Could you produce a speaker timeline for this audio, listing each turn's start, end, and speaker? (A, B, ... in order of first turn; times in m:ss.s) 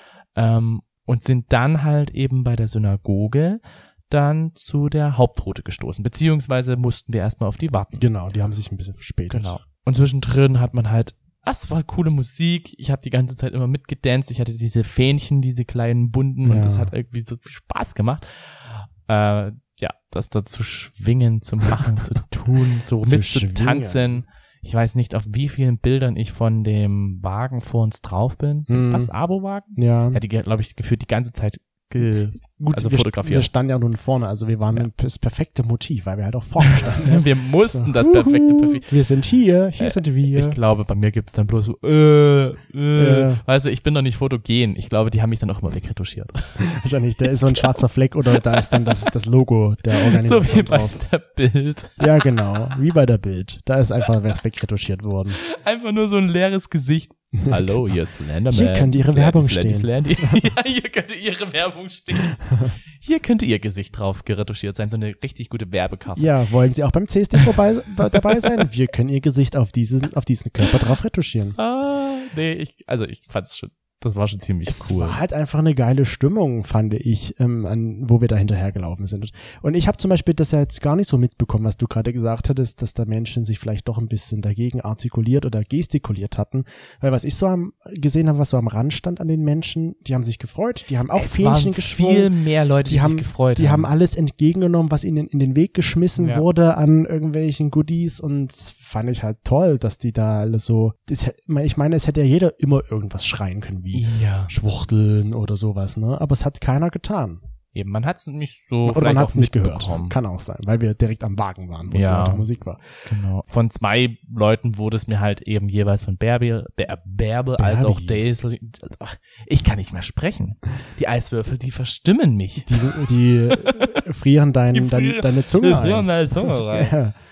0:00.4-0:08.1 A
0:07.9-0:09.6 B
0:09.3-0:33.5 A
0:16.4-0:16.9 B
0:23.0-0:24.1 B
0:28.7-0:29.1 B
0:29.8-0:30.2 B
0:32.6-0:40.6 B
0:36.6-0:38.9 A
0:39.8-0:46.7 A
0:43.0-0:43.4 B
0:46.6-0:51.0 B
0:47.5-0:47.8 A
0:48.3-0:49.1 A
0:50.0-0:52.2 A
0:52.0-0:55.4 B
0:55.4-1:06.3 A
0:57.4-0:57.8 B
0:58.5-1:00.4 B
1:06.2-1:11.6 B
1:08.2-1:08.6 A
1:11.6-1:15.2 A
1:14.7-1:32.3 B
1:31.1-1:33.9 A
1:32.8-1:47.4 B
1:36.2-1:36.5 A
1:43.9-1:44.5 A
1:47.7-1:50.2 A
1:48.8-1:53.0 B
1:51.9-1:52.5 A
1:53.1-2:04.0 A
1:57.6-1:58.2 B
2:02.7-2:07.2 B
2:04.7-2:07.0 A